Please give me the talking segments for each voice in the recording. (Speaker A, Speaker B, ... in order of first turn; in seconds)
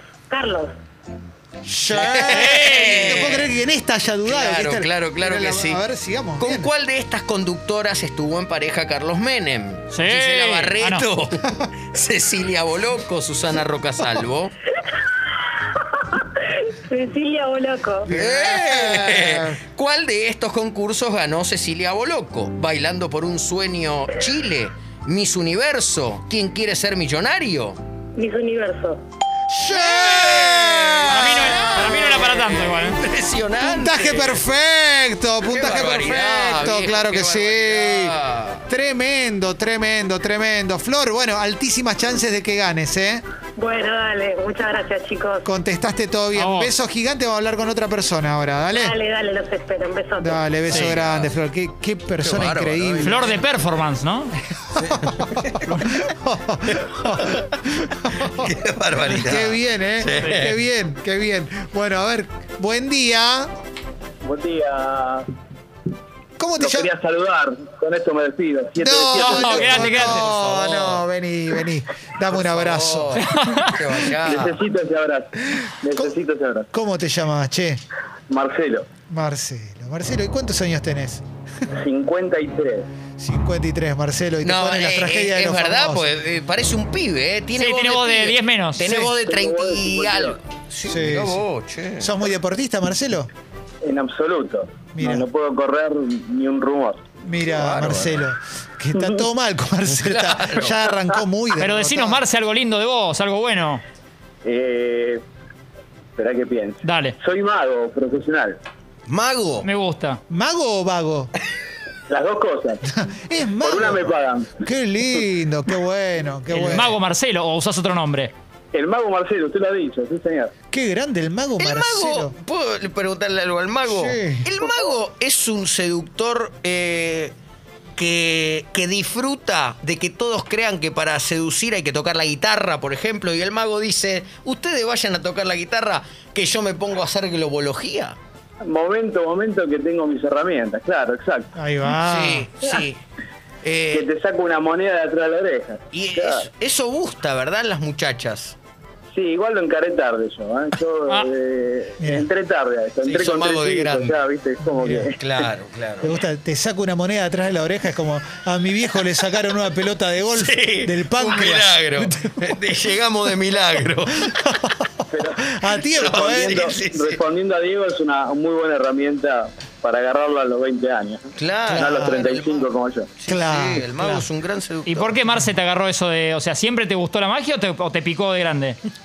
Speaker A: 0.3-0.7, 15.8-18.1, 28.1-29.0, 43.5-45.5, 48.7-50.4
Speaker B: 1.6-6.7, 18.1-19.6, 29.6-31.6, 33.6-38.1, 38.7-43.2, 45.4-48.9, 50.2-53.4, 54.8-58.4, 59.1-63.5, 66.4-66.9, 68.8-73.2, 76.7-77.8, 79.1-81.2, 83.2-86.1, 90.8-91.4, 92.0-93.3, 94.9-95.2, 97.2-102.2, 110.3-111.3, 112.9-117.0, 120.7-122.3, 123.9-124.5, 141.6-142.5, 152.0-152.3, 154.8-155.1, 156.0-162.6, 165.5-166.7, 171.7-172.2, 173.3-174.2
Speaker C: 1.9-3.5, 4.2-5.8, 6.4-14.5, 18.1-27.8, 29.5-34.4, 35.5-38.6, 50.8-51.3, 52.2-53.2, 54.8-55.6, 58.3-60.6, 70.3-71.0, 72.3-74.6, 84.4-92.1, 97.4-98.2, 99.9-100.8, 109.1-109.7, 121.6-127.3, 128.0-138.2, 142.0-143.0, 143.6-144.1, 145.9-148.6, 153.0-154.2, 155.2-156.1, 160.3-164.3, 166.0-167.2, 171.3-175.2
Speaker D: 9.9-11.1, 31.1-33.0, 46.3-46.7, 50.7-51.0, 53.0-54.3, 69.1-70.3, 73.2-74.0, 87.5-89.1, 101.6-103.8, 106.8-107.2, 109.6-110.2, 116.5-118.3, 174.8-178.8
Speaker E: 64.2-65.3, 66.6-70.2, 74.2-76.7, 78.3-78.9, 81.7-82.8, 89.2-90.3, 93.8-97.0, 104.4-105.2, 106.2-108.6, 112.1-112.8, 113.6-114.7, 118.7-120.5, 138.6-141.5, 143.9-146.4, 149.1-155.2, 165.1-171.2, 171.8-173.1